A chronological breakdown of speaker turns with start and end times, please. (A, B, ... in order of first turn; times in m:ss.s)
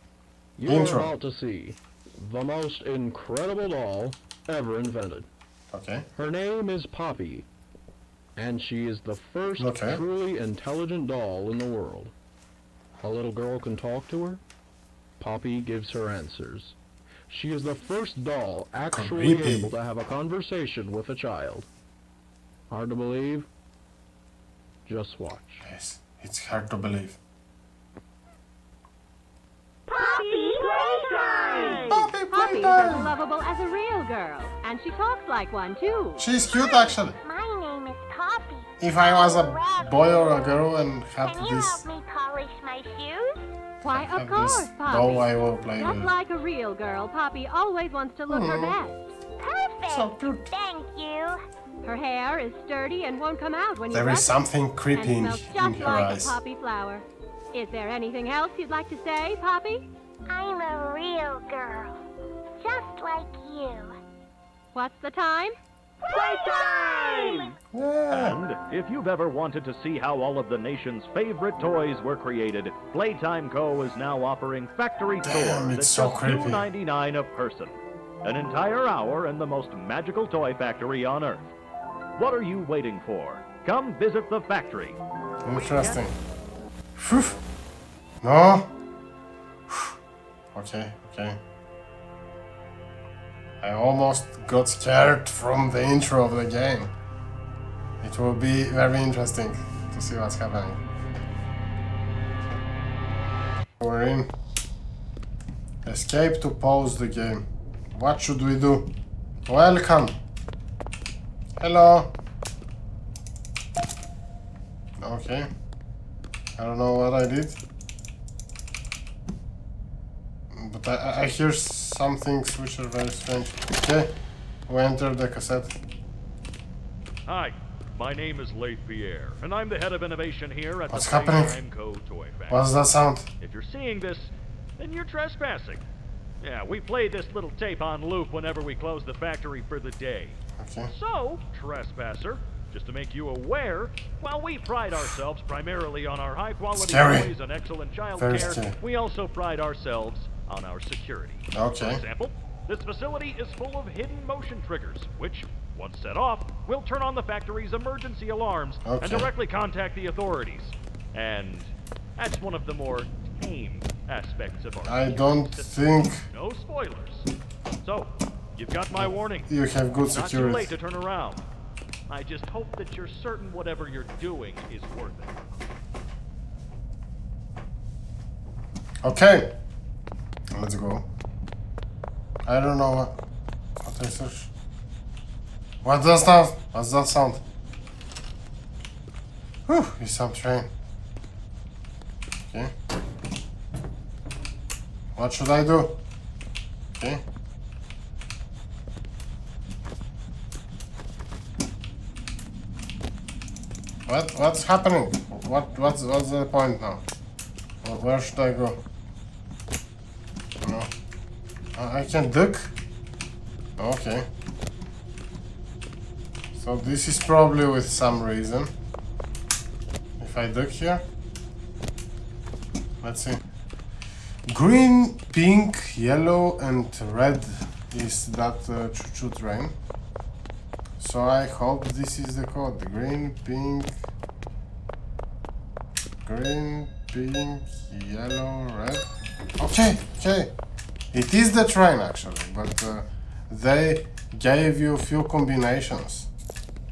0:00.6-0:05.3 A
0:00.6-0:01.1 B
0:05.7-0:06.1 B
0:06.1-0:07.5 A
0:08.4-0:12.1 A
0:09.6-0:10.0 B
0:13.0-0:14.4 A
0:15.2-0:16.8 A
0:17.3-0:21.7 A
0:18.9-0:19.7 B
0:22.7-0:23.5 A
0:24.8-0:25.6 A
0:25.6-0:27.2 B
0:29.9-0:32.1 C
0:29.9-0:31.9 D
0:31.9-0:33.1 B
0:32.3-0:36.3 E
0:36.2-0:37.1 B
0:36.4-0:40.3 D
0:38.8-0:41.8 B
0:41.2-0:43.4 D
0:43.8-0:46.1 B
0:43.8-0:48.9 E
0:48.3-0:48.8 B
0:49.4-0:51.4 D
0:49.9-0:50.5 B
0:51.8-0:59.8 E
0:53.9-0:56.4 B
1:00.3-1:02.0 D
1:02.6-1:03.9 D
1:04.7-1:05.6 E
1:06.0-1:07.5 C
1:07.7-1:08.4 B
1:08.1-1:21.5 C
1:15.2-1:16.6 B
1:22.2-1:26.0 C
1:25.4-1:26.2 B
1:27.0-1:27.4 B
1:28.2-1:28.7 B
1:30.5-1:31.4 B
1:33.6-1:36.9 B
1:38.0-1:40.8 B
1:43.8-1:44.3 B
1:45.8-1:48.9 B
1:49.5-1:50.2 B
1:51.6-1:52.1 B
1:55.0-1:55.5 B
1:56.6-1:57.6 B
2:00.5-2:04.1 B
2:04.7-2:05.8 B
2:07.3-2:12.7 C
2:10.9-2:11.6 B
2:12.5-2:13.3 B
2:13.4-2:15.8 C
2:16.4-2:47.3 C
2:20.6-2:20.9 B
2:26.7-2:27.3 B
2:28.2-2:28.7 B
2:31.5-2:32.0 B
2:38.8-2:39.3 B
2:44.8-2:46.2 B
2:47.8-2:49.5 C
2:48.9-2:50.7 B
2:50.1-2:51.4 C
2:52.1-2:55.4 C
2:59.0-2:59.5 B
3:00.5-3:01.1 B
3:02.4-3:03.2 B
3:03.8-3:04.5 B
3:05.8-3:07.4 B
3:09.7-3:10.7 B
3:12.5-3:12.7 B
3:15.2-3:16.0 B
3:16.9-3:17.2 B
3:24.1-3:27.0 B
3:27.8-3:28.8 B
3:30.6-3:30.9 B
3:31.7-3:32.7 B
3:33.8-3:34.3 B
3:36.5-3:38.7 B
3:40.2-3:41.0 B
3:43.0-3:43.4 B
3:44.5-3:49.8 B
3:51.0-3:54.0 B
3:56.2-3:59.1 B
3:59.6-4:00.5 B
4:01.1-4:06.3 B